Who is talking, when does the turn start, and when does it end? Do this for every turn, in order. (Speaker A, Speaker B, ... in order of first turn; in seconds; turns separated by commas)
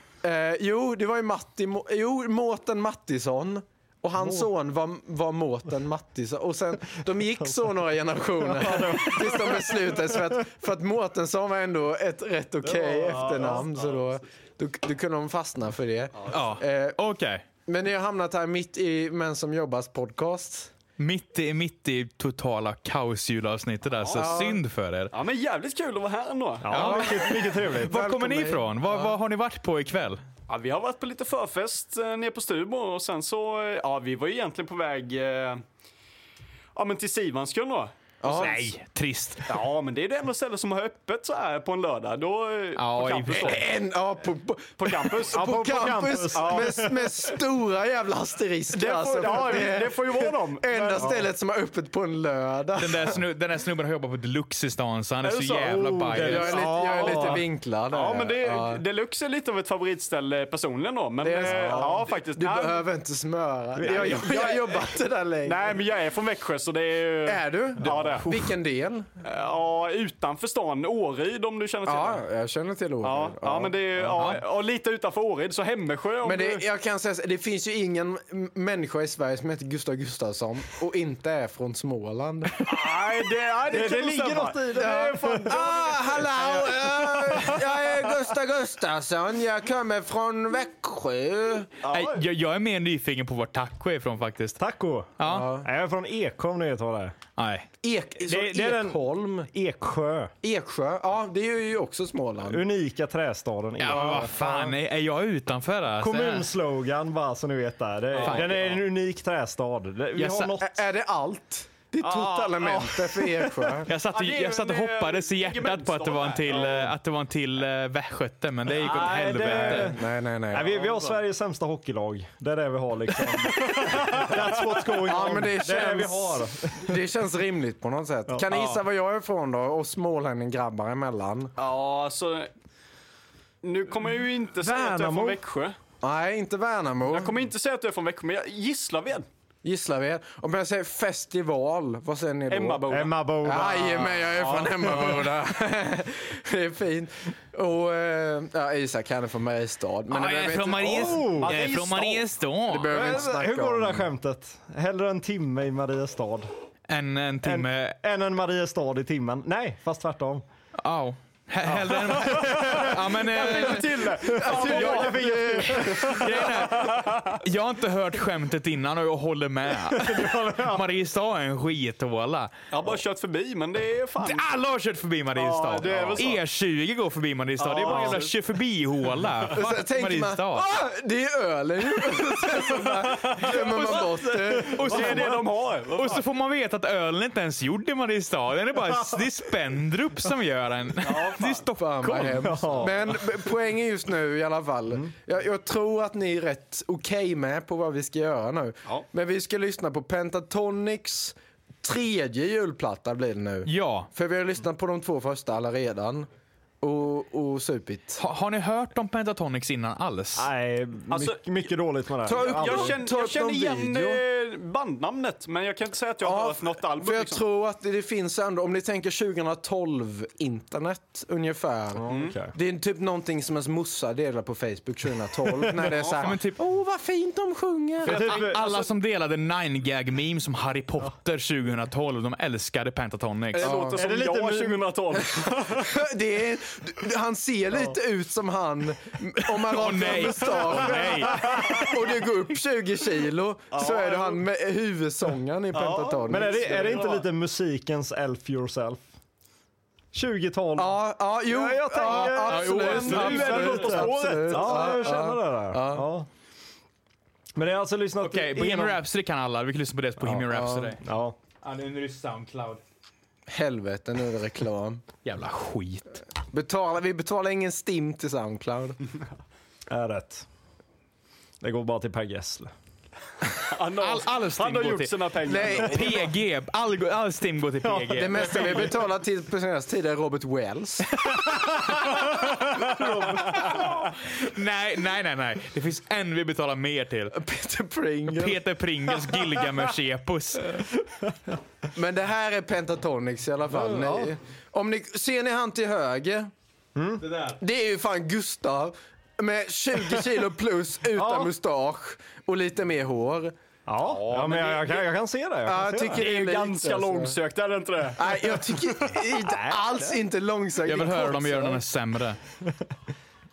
Speaker A: 0.2-17.0, Speaker B: 4.2-4.5, Speaker B: 8.4-10.3, Speaker B: 12.6-13.6, Speaker C: 16.3-17.4, Speaker A: 17.7-20.7, Speaker C: 21.0-25.1, Speaker A: 24.1-24.6, Speaker D: 25.1-27.1, Speaker B: 26.6-28.0, Speaker C: 26.7-27.1, Speaker A: 26.7-28.7, Speaker C: 27.7-30.2, Speaker D: 30.5-35.6, Speaker D: 36.7-38.6, Speaker A: 38.2-38.6, Speaker C: 38.3-39.5, Speaker D: 39.5-43.6, Speaker C: 42.8-43.6, Speaker A: 43.4-53.2, Speaker D: 44.8-45.5, Speaker B: 45.3-47.3, Speaker D: 46.3-46.8, Speaker D: 48.7-51.2, Speaker B: 51.0-51.2, Speaker C: 52.8-56.5, Speaker D: 55.2-62.8, Speaker B: 55.7-57.4, Speaker A: 56.2-58.8, Speaker A: 61.2-65.8, Speaker B: 61.5-62.0, Speaker B: 63.8-64.5, Speaker D: 63.8-64.7, Speaker D: 65.4-68.3, Speaker A: 67.2-69.1, Speaker D: 69.2-72.2, Speaker A: 71.8-73.8, Speaker D: 73.0-76.6, Speaker C: 74.2-74.4, Speaker A: 76.2-82.8, Speaker D: 82.6-87.6, Speaker B: 83.7-85.6, Speaker A: 84.7-91.7, Speaker D: 91.8-92.2, Speaker C: 91.9-94.6, Speaker B: 94.6-97.2, Speaker C: 95.2-95.5, Speaker A: 95.2-95.7, Speaker C: 97.4-97.7, Speaker A: 97.8-99.5, Speaker B: 98.2-99.0, Speaker B: 99.5-100.3, Speaker A: 100.4-102.6, Speaker B: 102.5-104.7, Speaker C: 103.8-106.5, Speaker A: 103.9-104.4, Speaker B: 106.0-110.8, Speaker C: 108.2-108.5, Speaker D: 108.2-108.8, Speaker C: 110.2-110.5, Speaker A: 110.6-113.9, Speaker B: 112.1-113.6, Speaker D: 112.1-112.5, Speaker C: 113.9-120.0, Speaker D: 114.0-116.9, Speaker B: 118.7-127.0, Speaker A: 119.6-121.0, Speaker D: 123.6-124.8, Speaker A: 125.0-131.5, Speaker B: 128.3-128.7, Speaker D: 131.6-132.5, Speaker D: 133.6-135.8, Speaker B: 134.6-135.4, Speaker A: 136.0-137.4, Speaker D: 137.1-139.3, Speaker A: 139.6-142.9, Speaker D: 142.5-144.8, Speaker B: 142.9-144.2, Speaker A: 143.4-151.3, Speaker C: 150.1-153.0, Speaker B: 150.9-151.6, Speaker D: 151.4-152.3, Speaker A: 152.7-154.1, Speaker B: 152.9-156.5, Speaker C: 156.9-158.0, Speaker B: 157.4-160.4, Speaker C: 160.8-164.1, Speaker B: 161.7-163.0, Speaker D: 162.4-167.4, Speaker A: 164.2-166.5, Speaker B: 164.2-166.2, Speaker C: 164.7-165.1, Speaker C: 166.1-172.5, Speaker B: 170.0-170.7, Speaker D: 172.7-174.5, Speaker C: 174.2-180.7, Speaker D: 175.3-176.4, Speaker B: 175.9-176.2, Speaker D: 177.6-178.3, Speaker A: 179.5-185.1, Speaker D: 183.2-186.2, Speaker C: 183.4-192.5, Speaker B: 184.9-185.2, Speaker D: 191.0-191.7, Speaker A: 191.8-206.3, Speaker B: 192.3-193.3, Speaker C: 203.7-204.1, Speaker A: 206.8-208.2, Speaker C: 208.2-210.5, Speaker B: 210.4-213.0, Speaker D: 211.1-211.6, Speaker A: 212.2-214.2, Speaker D: 212.3-217.4, Speaker A: 216.2-228.4, Speaker B: 222.0-222.5, Speaker D: 222.1-222.4, Speaker C: 226.2-226.6, Speaker B: 228.1-228.6, Speaker D: 228.1-228.8, Speaker C: 228.1-233.7, Speaker D: 233.5-236.0, Speaker A: 233.6-234.1, Speaker B: 234.0-234.9, Speaker A: 235.5-247.1, Speaker C: 239.7-241.9, Speaker D: 243.7-244.4, Speaker D: 245.8-247.3, Speaker B: 246.3-249.1, Speaker B: 250.1-256.3, Speaker A: 250.8-256.1, Speaker C: 252.4-254.1, Speaker D: 252.8-255.1, Speaker B: 257.6-259.0, Speaker C: 258.2-261.0, Speaker A: 260.4-261.0, Speaker B: 261.0-261.4, Speaker C: 261.6-262.8, Speaker A: 263.5-265.0, Speaker C: 265.2-266.1, Speaker A: 266.5-269.0, Speaker B: 269.9-270.5, Speaker B: 271.6-272.7, Speaker D: 273.7-276.3, Speaker C: 274.0-278.9, Speaker A: 275.4-276.2, Speaker B: 277.8-278.9, Speaker A: 278.1-281.1, Speaker C: 281.2-287.4, Speaker B: 282.9-283.6, Speaker A: 287.3-288.6, Speaker C: 288.3-290.8, Speaker A: 291.9-296.5, Speaker B: 293.7-294.3, Speaker B: 296.9-297.2, Speaker C: 297.2-297.6, Speaker A: 297.6-303.5, Speaker B: 301.1-301.5, Speaker B: 303.9-306.2, Speaker D: 304.1-305.0, Speaker A: 305.6-307.4, Speaker D: 306.1-309.1, Speaker A: 308.2-311.8, Speaker B: 309.3-310.1, Speaker C: 310.8-312.4